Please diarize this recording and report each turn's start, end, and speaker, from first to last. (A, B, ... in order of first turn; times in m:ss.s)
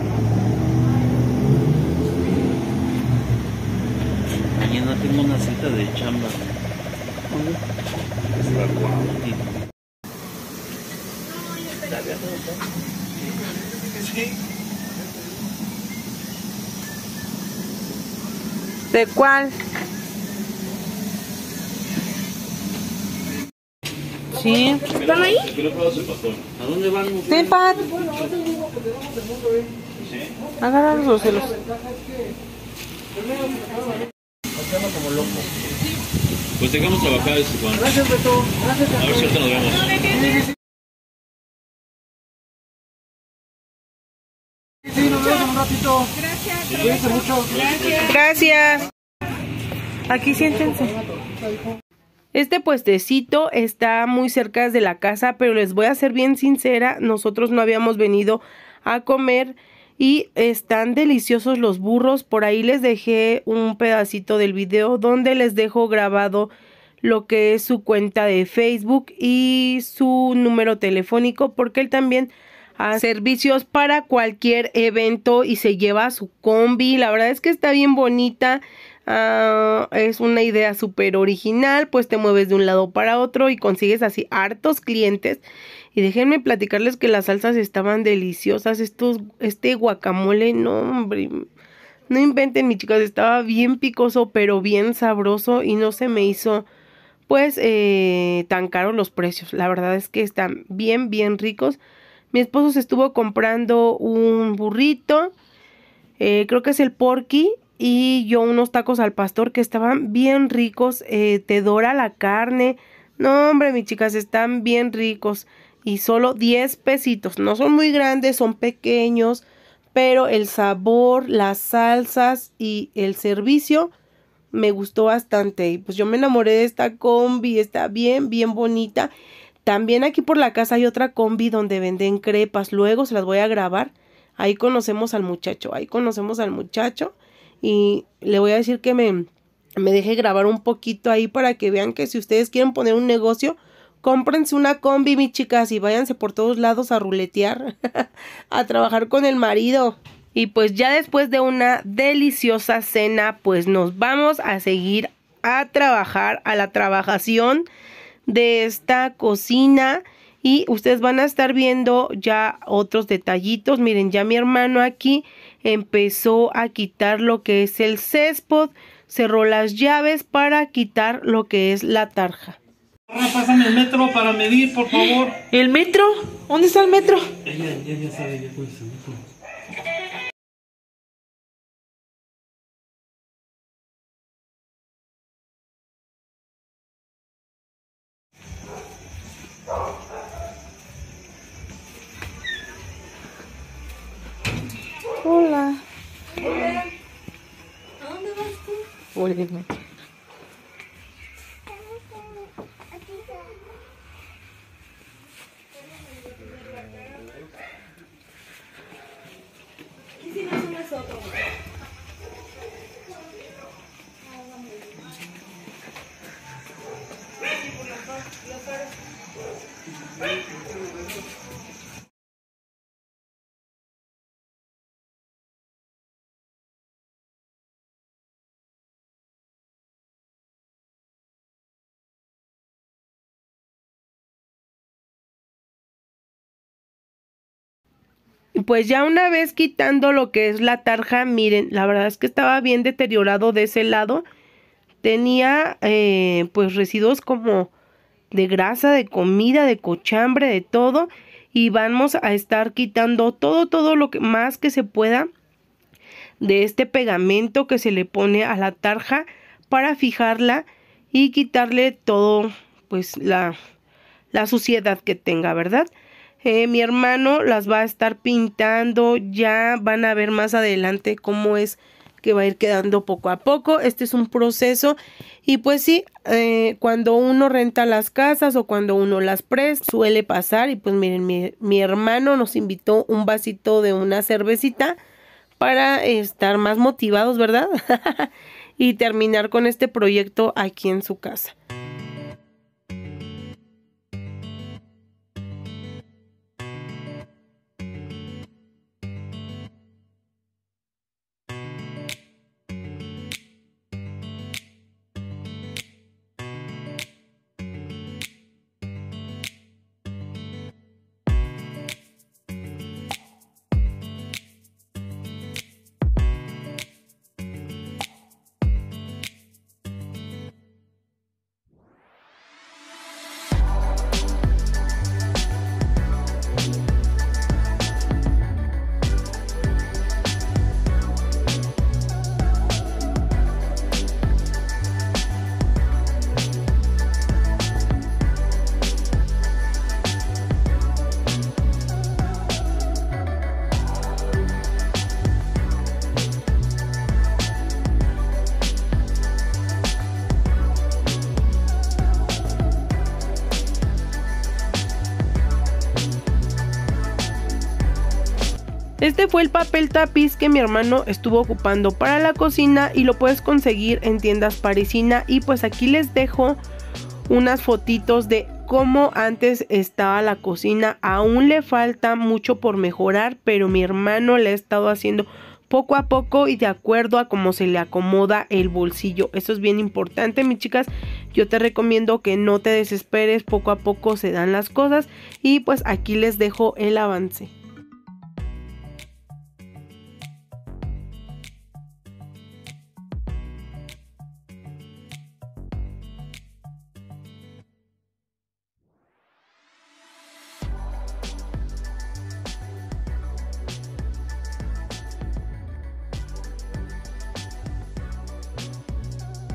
0:04.5-0:06.5 A
0:08.3-0:09.6 A
0:18.9-0:19.5 B
0:24.3-0:24.9 B
0:24.9-0:28.4 A
0:27.3-0:27.9 B
0:30.0-0:30.3 A
0:30.6-0:31.6 B
0:36.6-0:38.1 A
0:38.9-0:40.2 A
0:46.6-0:48.1 A
0:48.0-0:48.9 C
0:50.1-0:51.0 B
0:52.3-1:25.4 C
1:25.9-1:31.4 C
1:32.1-1:36.6 C
1:37.3-1:41.8 C
1:42.3-1:45.3 C
1:46.2-2:03.9 C
2:04.5-2:09.1 C
2:09.6-2:37.6 C
2:38.3-2:52.6 C
2:53.1-2:55.4 A
2:55.5-2:57.2 B
2:57.4-2:59.2 A
3:15.2-3:15.8 B
3:19.1-3:19.8 B
3:58.6-4:04.2 C
4:05.0-4:07.7 C
4:08.3-4:15.3 C
4:16.4-4:23.5 C
4:24.3-4:25.9 C
4:26.4-4:45.0 C
4:45.6-4:51.5 C
5:59.0-6:06.6 C
6:07.3-6:27.5 C